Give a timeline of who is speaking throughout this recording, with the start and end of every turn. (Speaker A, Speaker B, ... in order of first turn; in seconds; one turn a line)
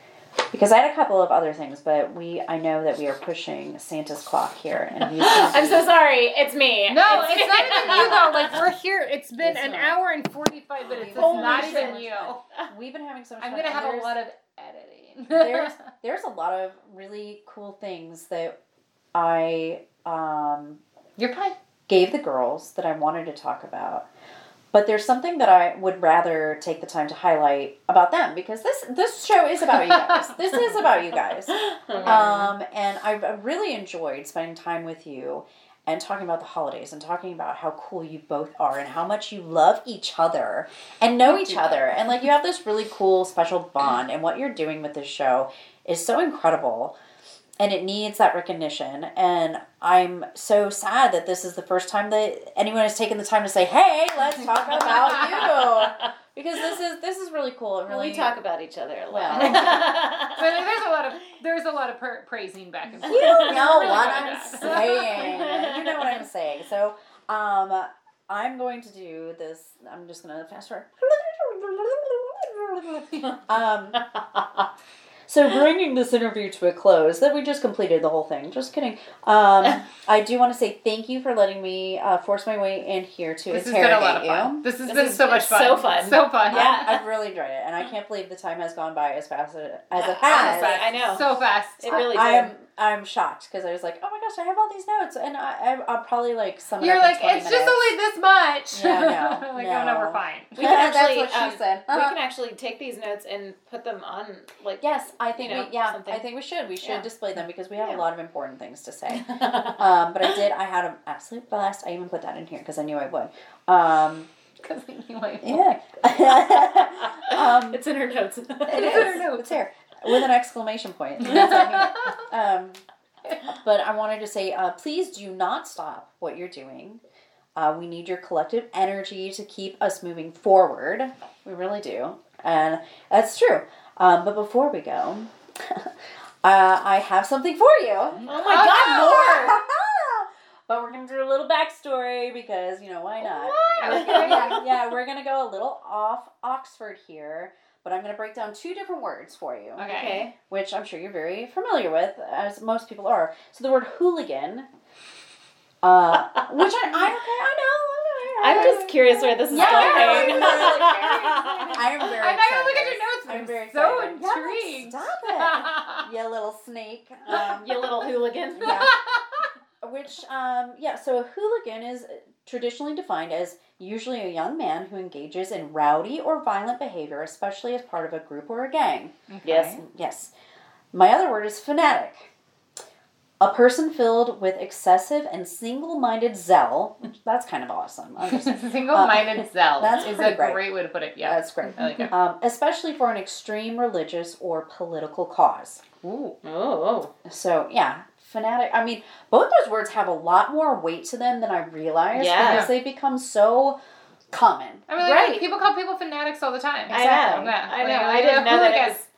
Speaker A: 0.5-6.0
Speaker B: 5.2-8.5
Speaker C: 6.9-12.4
Speaker A: 7.5-8.3
Speaker A: 9.4-10.0
Speaker A: 10.9-14.2
Speaker B: 11.1-12.1
Speaker C: 13.4-15.8
Speaker A: 15.3-18.6
Speaker A: 19.1-20.8
Speaker C: 21.2-21.6
Speaker A: 21.9-24.1
Speaker A: 24.7-47.0
Speaker B: 31.6-32.5
Speaker C: 31.9-32.3
Speaker C: 41.3-41.8
Speaker A: 47.6-58.3
Speaker B: 54.7-56.1
Speaker C: 54.8-55.5
Speaker B: 57.9-60.6
Speaker A: 59.1-60.0
Speaker C: 59.4-65.1
Speaker A: 63.0-74.1
Speaker B: 63.1-66.2
Speaker B: 74.1-74.4
Speaker A: 75.3-84.6
Speaker C: 83.5-86.9
Speaker B: 84.8-87.0
Speaker A: 86.5-90.9
Speaker B: 89.9-91.3
Speaker C: 90.2-92.1
Speaker B: 91.8-92.5
Speaker A: 91.9-97.8
Speaker C: 96.8-100.5
Speaker A: 98.7-102.2
Speaker B: 100.5-104.8
Speaker A: 104.8-114.3
Speaker B: 105.4-106.2
Speaker B: 109.1-109.8
Speaker C: 114.6-115.8
Speaker A: 115.4-117.8
Speaker B: 116.6-119.2
Speaker A: 118.7-122.8
Speaker C: 118.7-119.6
Speaker C: 121.2-122.2
Speaker A: 123.5-127.0
Speaker A: 127.6-154.7
Speaker B: 138.3-139.6
Speaker C: 138.3-139.5
Speaker B: 143.2-144.7
Speaker C: 143.8-144.7
Speaker C: 149.8-150.2
Speaker B: 149.9-150.3
Speaker A: 155.8-167.9
Speaker B: 158.4-161.8
Speaker C: 158.6-158.8
Speaker C: 159.5-166.0
Speaker B: 167.3-168.9
Speaker A: 168.6-169.0
Speaker C: 168.6-169.0
Speaker A: 169.8-179.1
Speaker C: 179.3-179.8
Speaker B: 179.4-179.8
Speaker A: 179.8-180.3
Speaker A: 180.9-182.3
Speaker A: 183.4-190.7
Speaker C: 188.2-192.1
Speaker A: 191.2-195.8
Speaker C: 196.0-196.4
Speaker B: 196.4-197.1
Speaker A: 197.2-203.8
Speaker B: 202.1-202.7
Speaker C: 202.4-202.7
Speaker A: 204.3-204.9
Speaker C: 204.9-209.0
Speaker B: 205.0-205.4
Speaker A: 206.9-207.5
Speaker B: 206.9-209.0